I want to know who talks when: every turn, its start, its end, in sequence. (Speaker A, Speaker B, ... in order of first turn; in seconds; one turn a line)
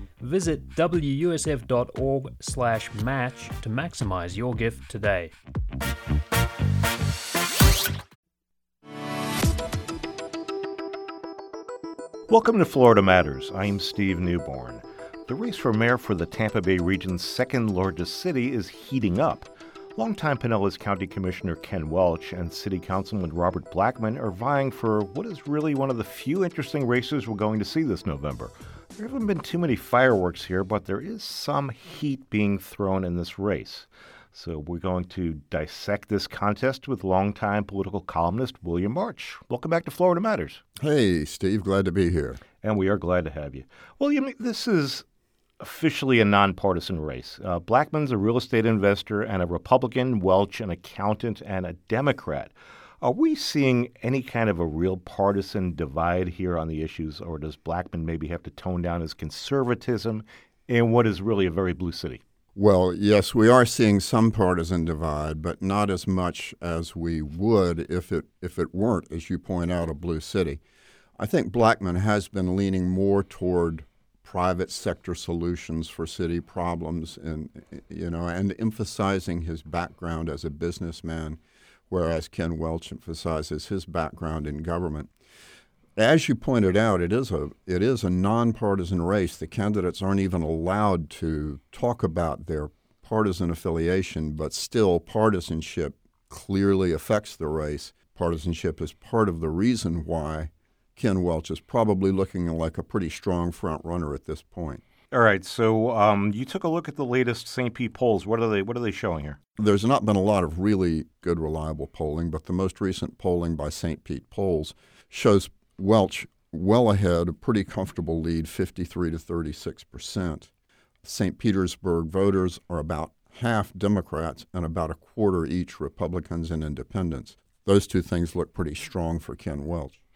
Speaker A: 0.2-5.3
Speaker B: 12.3-40.6
Speaker C: 40.8-42.4
Speaker B: 42.6-45.0
Speaker B: 45.6-62.2
Speaker C: 62.5-70.6
Speaker C: 71.2-85.1
Speaker C: 86.0-104.8
Speaker B: 105.1-109.4
Speaker C: 109.6-120.5
Speaker C: 121.0-130.0